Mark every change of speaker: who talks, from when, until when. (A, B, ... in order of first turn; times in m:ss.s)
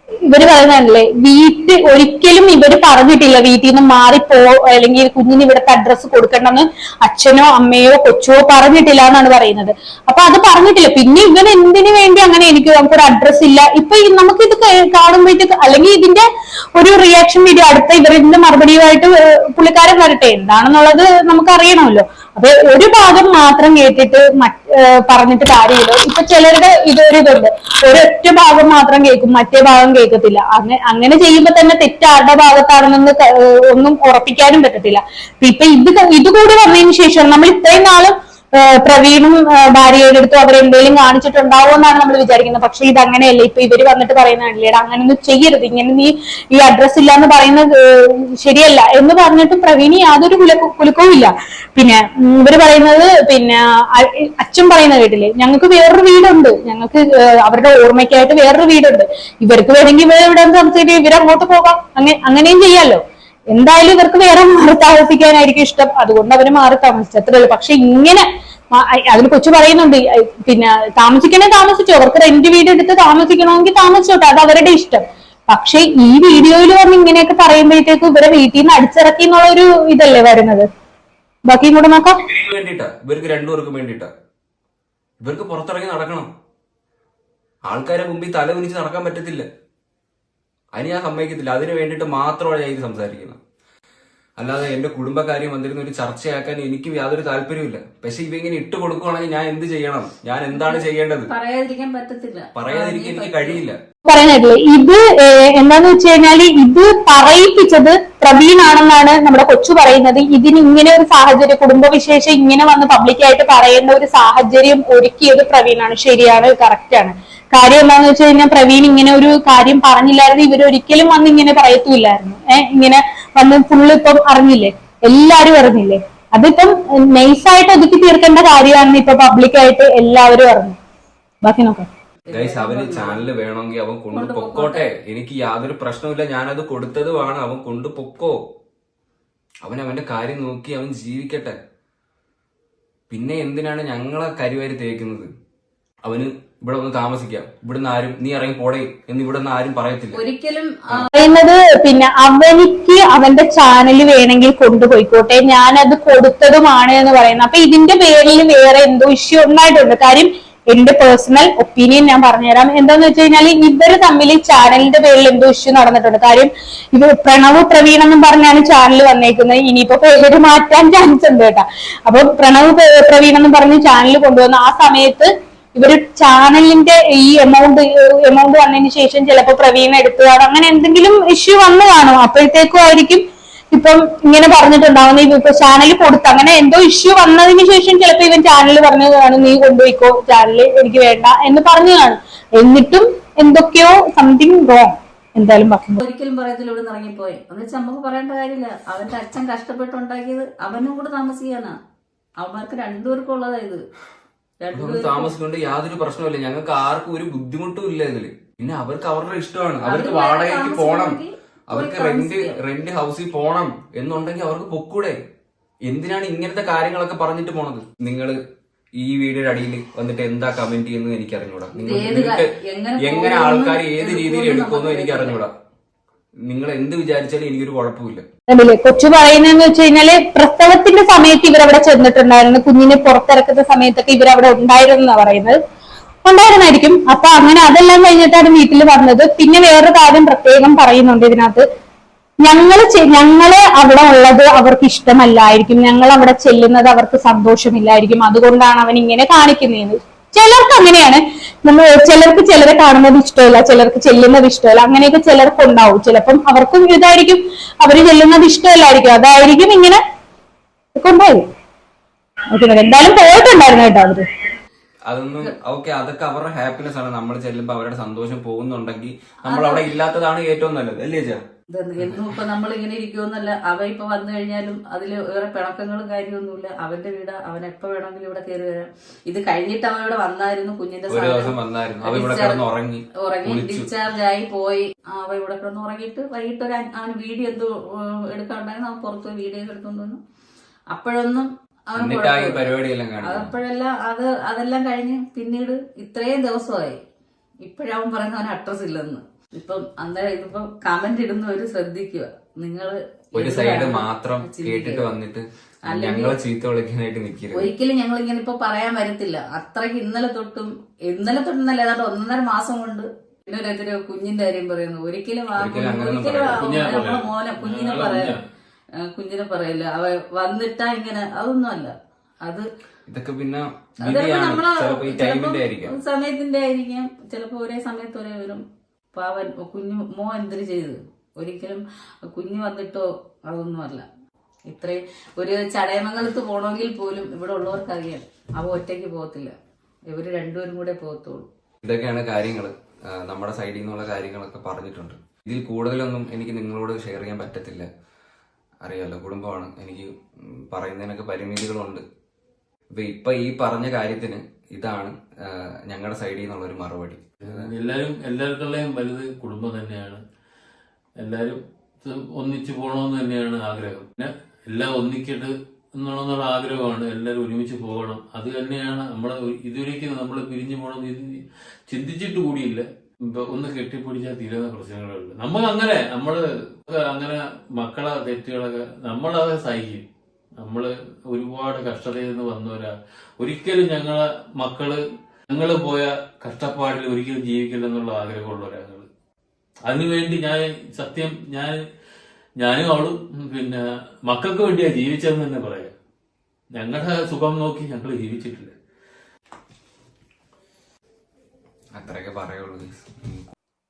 0:00.3-1:20.7 A
1:21.5-1:22.2 A
1:22.3-1:24.1 B
1:25.2-1:26.3 B
1:27.7-1:29.4 B
1:30.8-1:33.4 B
1:34.4-1:41.3 B
1:40.5-1:43.6 C
1:42.5-1:43.8 B
1:44.0-2:10.8 A
2:11.4-2:11.9 A
2:12.3-2:13.3 C
2:12.3-2:18.4 B
2:14.1-2:14.9 C
2:19.6-2:21.6 B
2:23.1-2:25.3 B
2:26.0-2:30.2 B
2:30.1-2:31.1 C
2:31.1-3:16.0 A
3:16.0-3:21.8 C
3:22.4-3:23.8 C
3:24.6-3:25.3 C
3:24.7-3:31.2 B
3:29.8-3:32.6 C
3:31.7-3:35.2 B
3:35.9-3:38.4 B
3:39.0-3:45.5 B
3:41.8-3:45.4 C
3:46.5-3:48.2 B
3:48.5-3:55.6 A
3:56.2-4:01.6 A
4:02.4-4:20.0 A
4:21.0-4:21.5 A
4:22.5-4:24.3 A
4:25.1-4:31.4 B
4:29.5-4:29.8 C
4:31.7-4:42.6 C
4:41.1-4:43.9 B
4:43.2-4:50.2 C
4:50.9-4:57.0 C
4:52.0-4:53.5 B
4:57.6-5:05.0 C
5:03.4-5:07.7 B
5:05.9-5:06.4 C
5:07.5-5:18.3 C
5:15.6-5:16.6 B
5:16.6-5:18.4 D
5:19.0-5:22.7 C
5:23.1-5:26.0 B
5:24.0-5:28.6 C
5:29.1-5:34.0 C
5:34.7-5:39.5 C
5:40.1-5:41.5 C
5:41.8-5:47.9 B
5:48.8-5:50.1 B
5:50.7-5:52.0 B
5:52.9-5:57.7 B
5:57.4-6:00.2 D
6:01.2-6:20.0 D
6:20.6-6:29.1 D
6:29.9-6:31.8 D
6:32.6-6:35.9 D
6:36.8-6:38.7 D
6:42.0-6:43.5 B